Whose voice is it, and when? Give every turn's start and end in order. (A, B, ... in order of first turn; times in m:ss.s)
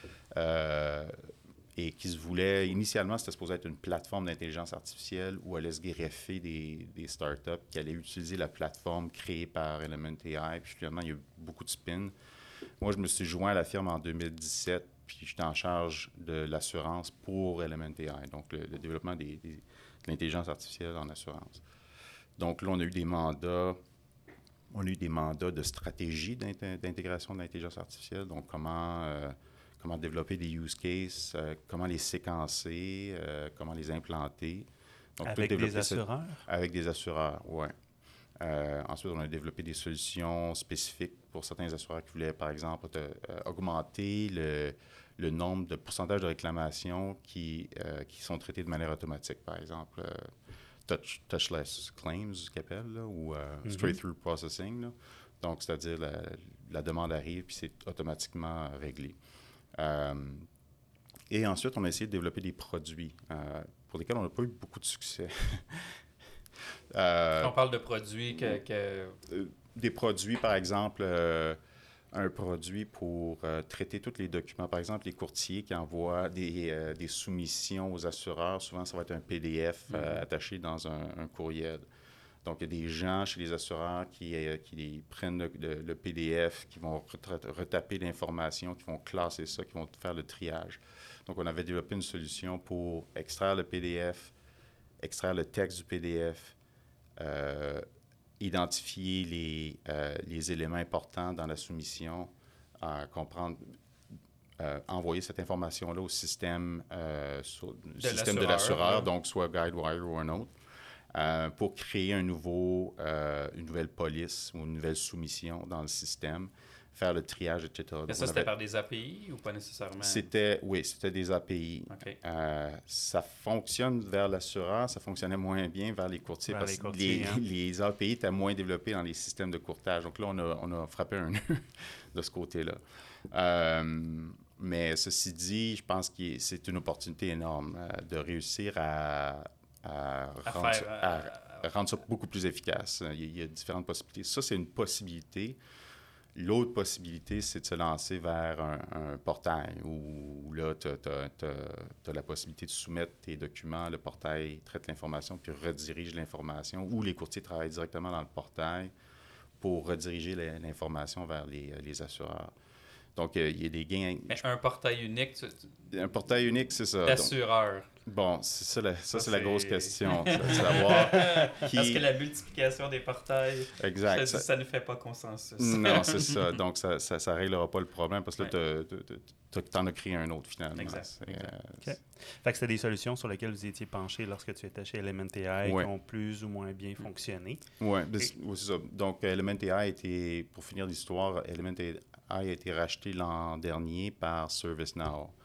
0:00.3-0:12.1 A
0:12.8-0:21.6 A
0:22.4-0:23.8 A
0:24.7-0:37.7 A
0:35.2-0:36.4 B
0:38.4-0:50.3 A
0:50.8-0:59.2 A
0:53.6-0:54.0 B
0:59.7-1:00.5 A
1:01.3-1:06.0 A
1:06.9-1:07.6 A
1:07.4-1:09.2 C
1:09.3-1:11.6 A
1:12.1-1:21.8 A
1:19.9-1:20.2 C
1:22.4-1:34.3 A
1:35.0-1:36.6 A
1:37.2-1:37.8 A
1:38.4-1:43.8 A
1:44.6-1:50.5 A
1:48.0-1:49.1 C
1:51.1-1:58.5 A
1:58.1-2:00.3 C
2:00.0-2:25.6 A
2:01.9-2:02.2 C
2:06.5-2:07.4 B
2:20.4-2:21.7 C
2:26.3-2:38.9 A
2:39.6-2:42.5 A
2:43.1-2:44.4 A
2:44.3-2:45.8 C
2:45.9-2:47.3 A
2:47.0-2:47.9 C
2:48.0-2:52.0 A
2:49.1-2:56.6 C
2:53.8-2:54.4 A
2:55.6-3:01.9 A
3:00.7-3:01.5 C
3:01.8-3:07.6 B
3:05.6-3:05.9 A
3:07.8-3:15.3 A